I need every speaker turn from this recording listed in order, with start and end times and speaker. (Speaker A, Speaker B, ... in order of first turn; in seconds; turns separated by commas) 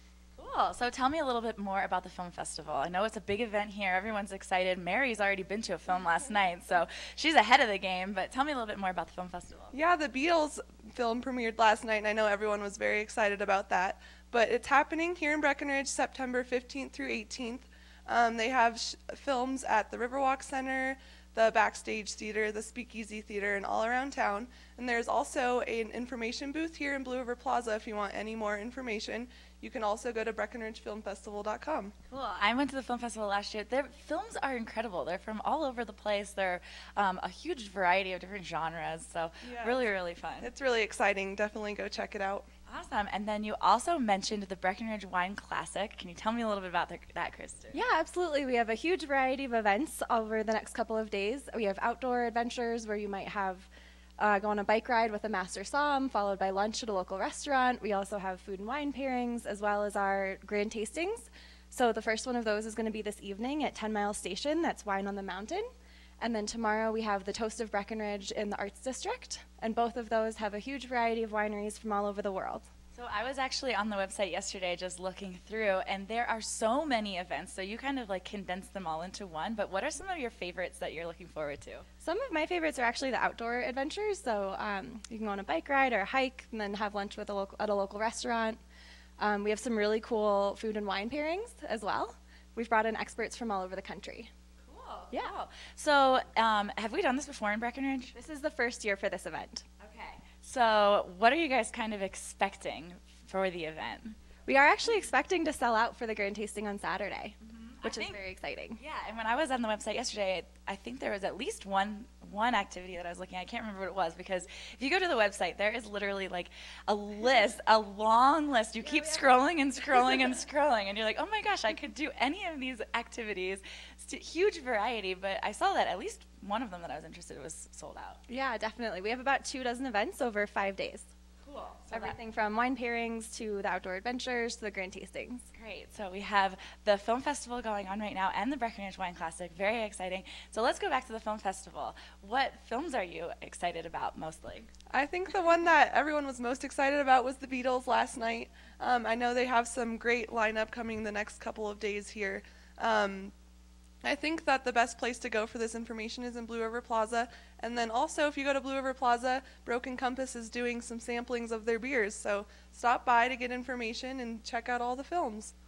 Speaker A: 0.4-9.7, Speaker B: 9.7-31.9, Speaker A: 32.1-40.5, Speaker B: 39.4-39.9, Speaker B: 40.4-42.5, Speaker A: 42.7-47.8, Speaker C: 47.7-65.7, Speaker C: 66.2-72.7, Speaker A: 72.9-81.8, Speaker C: 82.0-88.6, Speaker C: 89.2-94.3, Speaker A: 94.7-98.1, Speaker C: 98.1-99.7, Speaker A: 99.8-104.2, Speaker C: 104.5-108.8, Speaker A: 107.4-108.2, Speaker A: 108.8-128.2, Speaker C: 118.8-119.3, Speaker C: 128.3-131.1, Speaker A: 131.4-132.2, Speaker C: 131.9-135.5, Speaker A: 135.5-144.7, Speaker B: 144.9-153.3, Speaker B: 154.0-165.5